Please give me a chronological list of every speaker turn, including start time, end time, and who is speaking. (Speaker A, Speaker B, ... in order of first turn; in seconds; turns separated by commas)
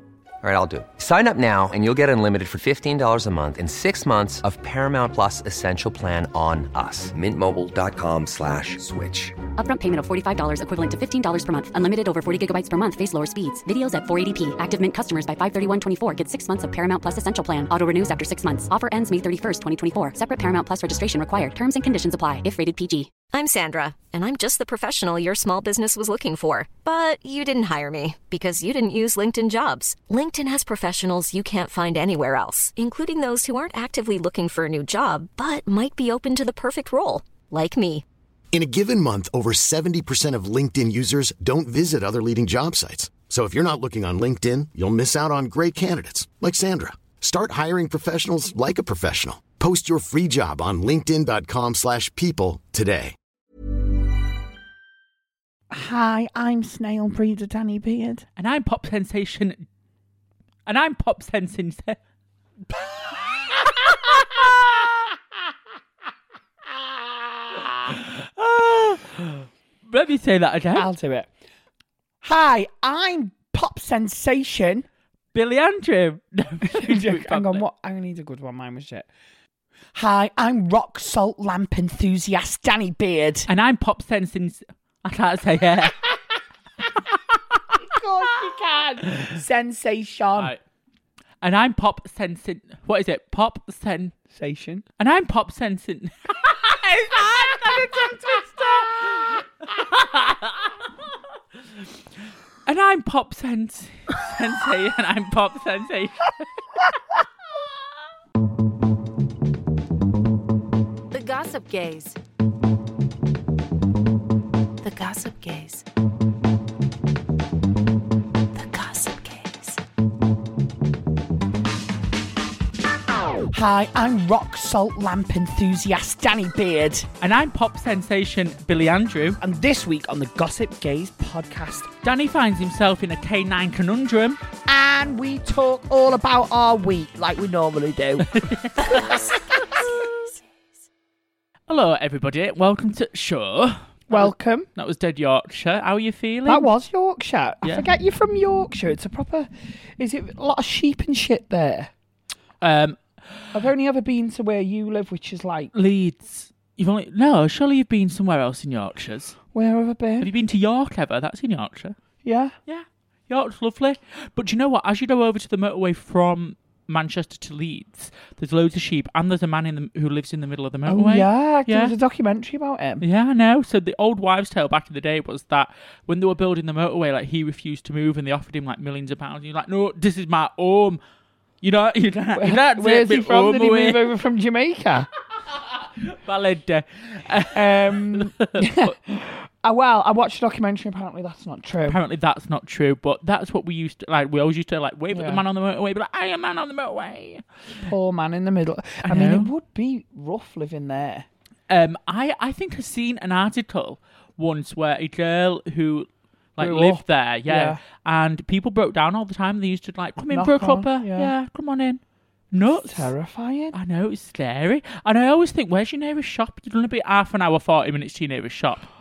Speaker A: 0.4-9.4, Speaker B: 9.6-23.2, Speaker C: 23.2-38.0, Speaker D: 38.5-53.1, Speaker E: 55.7-58.3, Speaker F: 58.4-59.6, Speaker F: 60.7-62.0, Speaker E: 63.8-64.9, Speaker E: 66.7-67.8, Speaker F: 67.9-70.9, Speaker E: 70.7-71.3, Speaker E: 72.2-74.9, Speaker F: 75.3-77.6, Speaker E: 76.6-79.1, Speaker E: 79.9-83.5, Speaker F: 83.5-86.1, Speaker E: 87.7-90.5, Speaker F: 91.4-94.1, Speaker E: 94.3-94.8, Speaker F: 95.0-101.1, Speaker E: 97.5-99.3, Speaker F: 102.7-106.4, Speaker G: 111.1-112.2, Speaker G: 114.8-115.8, Speaker G: 118.5-119.8, Speaker E: 123.5-127.1, Speaker F: 127.2-129.4, Speaker E: 129.4-131.9, Speaker F: 132.0-134.4, Speaker E: 134.7-139.5, Speaker F: 138.2-139.2, Speaker G: 139.7-140.1, Speaker F: 141.7-146.7, Speaker E: 144.1-144.7, Speaker E: 146.4-151.9, Speaker F: 152.6-153.6, Speaker E: 153.5-155.7, Speaker F: 155.7-159.3, Speaker E: 159.5-160.3, Speaker F: 160.2-162.0, Speaker E: 162.2-162.5, Speaker F: 162.7-171.9, Speaker E: 170.9-173.0, Speaker F: 173.0-181.0, Speaker F: 181.6-184.1, Speaker E: 182.3-185.1, Speaker F: 185.5-188.9, Speaker E: 187.5-192.0, Speaker F: 191.8-197.4, Speaker E: 195.1-195.4, Speaker E: 197.8-201.3, Speaker F: 199.0-199.5, Speaker F: 201.7-212.0, Speaker E: 206.6-207.8, Speaker E: 210.3-211.3, Speaker F: 212.5-213.1, Speaker E: 212.8-213.8, Speaker F: 213.7-218.8